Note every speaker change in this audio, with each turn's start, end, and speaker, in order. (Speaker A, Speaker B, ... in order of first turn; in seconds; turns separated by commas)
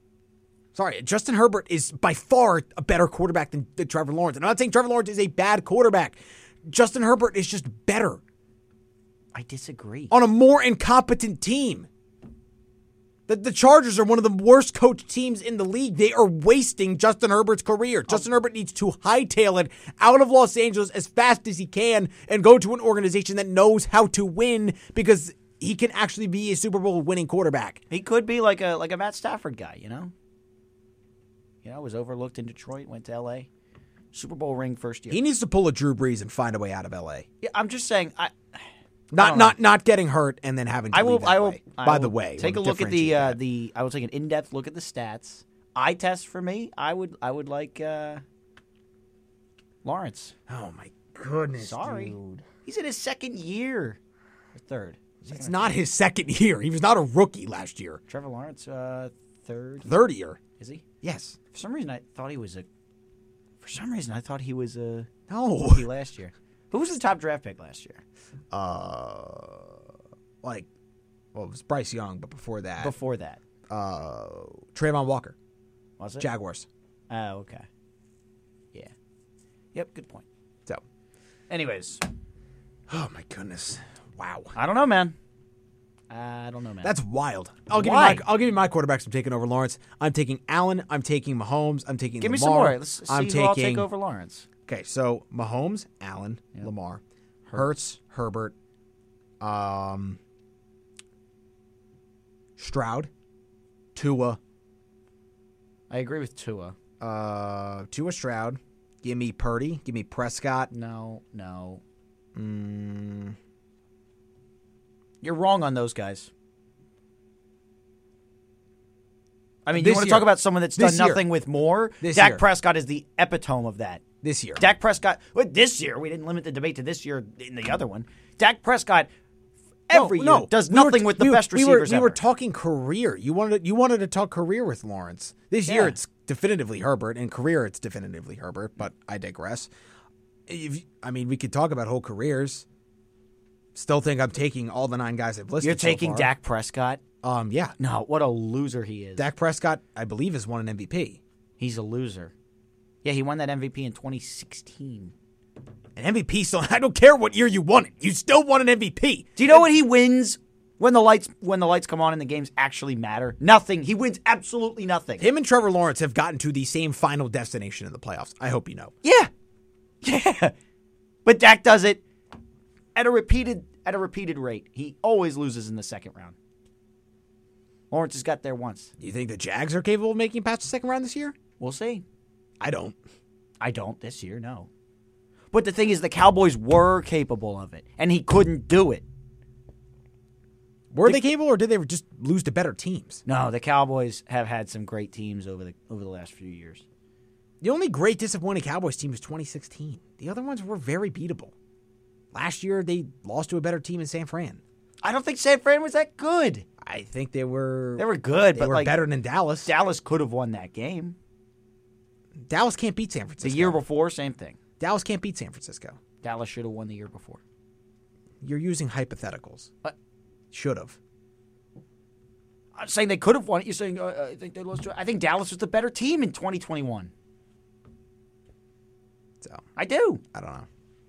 Speaker A: 0.7-8.2, Speaker B: 9.3-10.1, Speaker A: 10.1-11.9, Speaker A: 13.3-27.8, Speaker B: 27.9-30.1, Speaker B: 31.6-33.5, Speaker B: 34.1-35.2, Speaker A: 35.1-37.2, Speaker B: 37.4-38.6, Speaker A: 39.1-43.4, Speaker B: 39.2-39.6, Speaker B: 40.9-48.2, Speaker B: 49.8-50.3, Speaker A: 50.5-52.5, Speaker B: 51.6-54.0, Speaker B: 54.5-55.7, Speaker A: 55.2-58.0, Speaker B: 58.1-60.0, Speaker A: 59.8-60.4, Speaker B: 60.6-60.8, Speaker A: 61.0-61.4, Speaker B: 61.5-62.7, Speaker B: 63.6-68.0, Speaker A: 65.3-65.9, Speaker A: 68.5-69.8, Speaker A: 70.4-70.7, Speaker A: 71.3-72.9, Speaker B: 72.8-73.4, Speaker A: 73.7-75.3, Speaker B: 76.0-76.3, Speaker A: 76.2-76.7, Speaker B: 77.1-77.7, Speaker B: 79.7-80.2, Speaker B: 81.5-82.0, Speaker A: 82.9-84.5, Speaker B: 84.5-85.2, Speaker B: 86.1-87.0, Speaker A: 86.8-93.9, Speaker B: 87.7-88.2, Speaker B: 92.2-94.5, Speaker A: 94.7-97.0, Speaker A: 97.5-98.5, Speaker A: 99.4-100.2, Speaker A: 102.6-103.1, Speaker A: 103.9-104.4, Speaker B: 105.9-106.7, Speaker A: 107.0-110.7, Speaker B: 110.7-111.8, Speaker A: 112.3-113.3, Speaker B: 115.2-116.3, Speaker B: 119.7-124.0, Speaker A: 119.7-121.2, Speaker A: 122.0-122.4, Speaker A: 124.2-124.6, Speaker B: 124.6-129.1, Speaker B: 129.9-132.2, Speaker A: 129.9-139.7, Speaker B: 135.7-136.0, Speaker A: 140.5-142.7, Speaker A: 143.7-146.3, Speaker B: 145.6-147.0, Speaker A: 147.2-147.7, Speaker B: 147.8-149.3, Speaker A: 149.2-151.2, Speaker B: 151.6-152.3, Speaker B: 153.0-155.1, Speaker A: 155.9-159.6, Speaker B: 159.3-165.3, Speaker A: 165.2-168.9, Speaker B: 169.0-169.3, Speaker B: 170.0-170.5, Speaker B: 171.2-172.0, Speaker B: 172.9-176.3, Speaker B: 177.9-178.9, Speaker A: 179.0-181.4, Speaker B: 181.6-182.0, Speaker A: 182.6-183.0, Speaker B: 183.6-184.7, Speaker B: 185.5-189.0, Speaker A: 190.9-193.2, Speaker B: 193.2-196.8, Speaker A: 197.6-201.5, Speaker A: 202.3-204.6, Speaker B: 205.0-206.6, Speaker A: 206.8-209.7, Speaker B: 208.0-208.9, Speaker B: 209.6-211.2, Speaker A: 212.5-213.8, Speaker B: 213.4-214.6, Speaker A: 214.8-216.0, Speaker B: 216.2-217.4, Speaker A: 218.4-219.7, Speaker A: 220.5-221.0, Speaker B: 222.7-227.1, Speaker B: 229.8-230.2, Speaker A: 230.3-230.7